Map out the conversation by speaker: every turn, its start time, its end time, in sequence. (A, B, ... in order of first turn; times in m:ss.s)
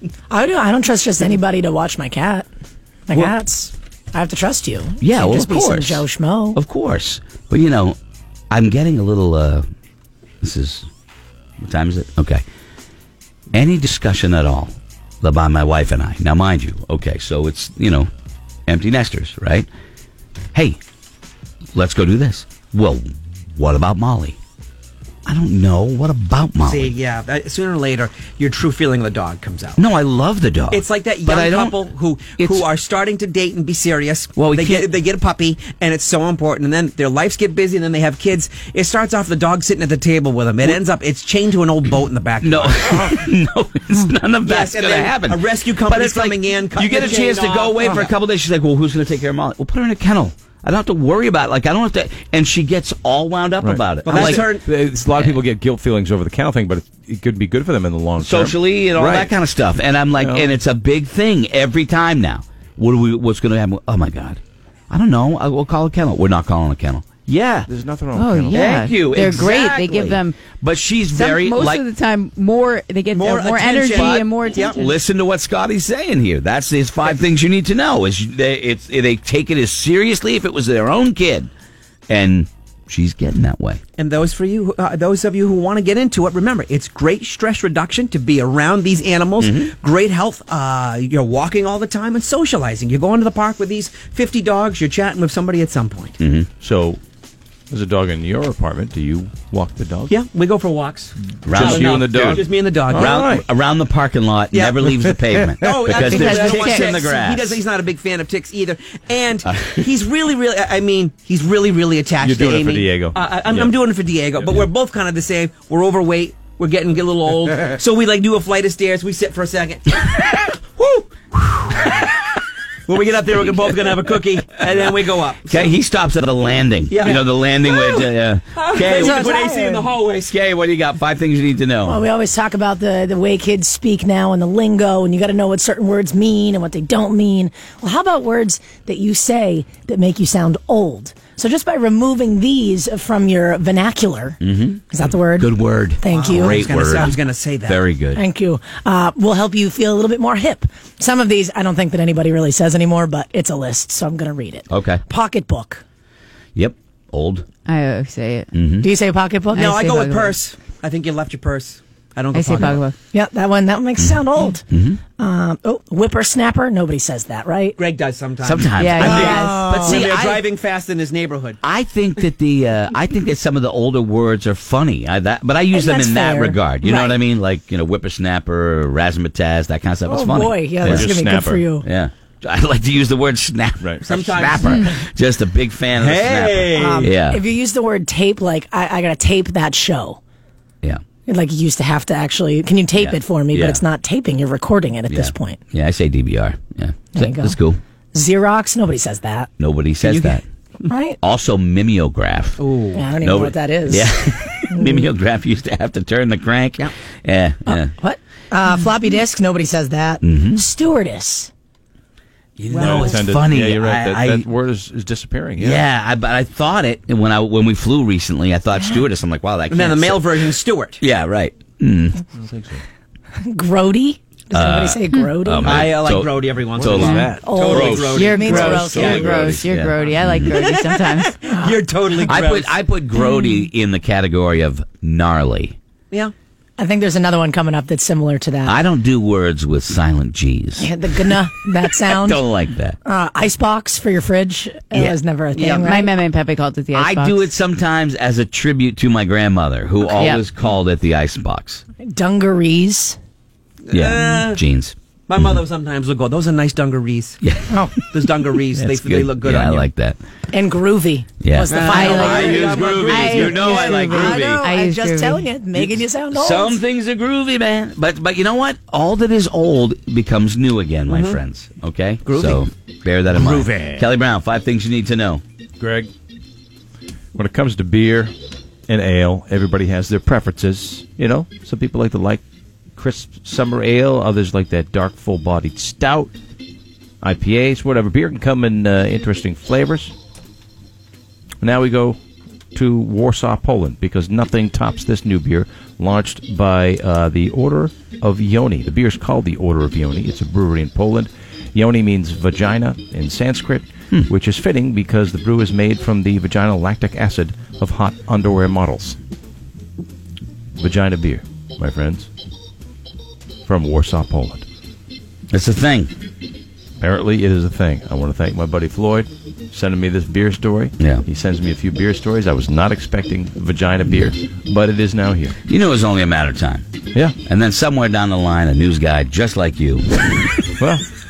0:00.3-0:02.5 A
0:03.1-0:06.6 A
0:05.0-0:08.0 B
0:08.5-0:09.6 B
0:10.4-0:10.9 B
0:11.6-0:12.4 B
0:13.5-0:18.1 B
0:18.7-0:19.7 B
0:20.5-0:20.8 B
0:21.7-0:24.4 B
0:25.2-0:26.9 B
0:26.6-0:29.8 C
0:29.8-0:31.8 B
0:30.7-0:43.2 C
0:32.4-0:32.6 B
0:34.4-0:34.9 B
0:42.4-0:54.4 B
0:44.4-0:48.1 C
0:53.6-0:59.3 D
0:54.0-0:54.6 C
0:55.1-0:55.4 B
0:58.2-1:07.7 B
1:00.2-1:00.5 D
1:07.7-1:08.7 D
1:08.1-1:10.4 E
1:08.5-1:11.8 B
1:11.1-1:14.9 E
1:13.1-1:14.8 C
1:13.9-1:21.5 B
1:22.1-1:23.8 B
1:24.0-1:36.2 C
1:29.4-1:29.7 B
1:36.2-1:36.5 B
1:36.6-1:37.0 D
1:37.7-1:40.2 D
1:40.1-1:43.2 C
1:41.4-1:43.4 D
1:41.4-1:47.6 B
1:44.5-1:44.9 C
1:45.6-2:00.3 C
1:45.9-1:47.1 E
1:49.4-1:49.8 B
1:52.2-1:53.7 D
2:00.8-2:01.0 B
2:01.7-2:02.2 C
2:02.8-2:05.8 C
2:05.4-2:09.4 B
2:06.9-2:10.3 C
2:08.8-2:09.9 A
2:10.3-2:12.0 B
2:11.8-2:24.4 A
2:24.4-2:28.2 B
2:24.9-2:26.6 A
2:26.1-2:27.8 C
2:28.1-2:35.8 A
2:34.7-2:35.0 B
2:36.5-2:37.4 B
2:37.6-2:38.5 E
2:38.5-2:38.9 B
2:38.8-2:39.7 A
2:39.5-2:40.4 E
2:39.5-2:42.8 C
2:42.3-2:43.0 E
2:43.1-2:47.8 A
2:44.7-2:45.0 B
2:47.8-2:51.6 C
2:48.4-2:50.4 B
2:48.8-2:49.6 E
2:49.0-2:50.1 A
2:51.6-3:01.1 B
2:55.7-2:57.2 A
3:00.1-3:01.9 A
3:00.8-3:01.7 D
3:01.8-3:07.4 B
3:04.0-3:04.7 C
3:04.6-3:05.0 E
3:06.0-3:07.1 C
3:06.7-3:10.2 A
3:11.3-3:15.6 A
3:13.0-3:13.8 B
3:15.1-3:17.8 B
3:17.1-3:17.6 A
3:18.1-3:19.5 A
3:19.6-3:20.4 B
3:20.0-3:20.4 C
3:20.9-3:21.2 A
3:21.2-3:22.6 B
3:22.6-3:23.0 C
3:22.9-3:25.1 A
3:23.2-3:27.9 B
3:27.6-3:31.5 A
3:30.2-3:30.6 B
3:32.6-3:34.5 B
3:32.7-3:35.8 D
3:35.6-3:42.2 B
3:39.7-3:41.0 C
3:42.4-3:42.8 D
3:43.4-3:45.9 A
3:44.5-3:50.5 B
3:45.6-3:49.4 C
3:46.7-3:47.5 D
3:47.4-3:49.2 A
3:48.1-3:51.4 E
3:50.5-3:52.7 C
3:51.5-3:51.8 A
3:52.3-3:55.8 B
3:56.8-3:58.8 A
3:58.6-4:00.9 B
4:00.8-4:02.4 A
4:02.2-4:03.0 B
4:03.0-4:06.1 A
4:04.9-4:05.2 B
4:05.5-4:07.5 E
4:06.9-4:11.8 B
4:10.0-4:10.4 E
4:12.0-4:13.2 A
4:13.9-4:14.6 C
4:13.9-4:15.5 B
4:15.3-4:17.4 C
4:17.4-4:17.7 B
4:18.1-4:19.9 C
4:18.8-4:20.2 B
4:20.5-4:22.8 A
4:21.4-4:24.6 B
4:21.7-4:23.8 C
4:21.7-4:25.4 E
4:23.3-4:26.8 A
4:25.8-4:35.4 B
4:31.1-4:31.4 C
4:32.2-4:32.6 C
4:33.3-4:34.0 D
4:35.8-4:36.1 D
4:37.3-4:38.3 D
4:38.9-4:42.4 D
4:43.0-4:46.3 D
4:47.2-4:50.1 D
4:51.6-4:52.2 D
4:52.7-5:09.2 D
5:10.8-5:12.3 D
5:13.6-5:14.6 D
5:15.5-5:16.1 B
5:17.0-5:25.5 D
5:21.0-5:21.2 B
5:25.7-5:26.8 B
5:27.4-5:30.7 B
5:30.8-5:31.0 D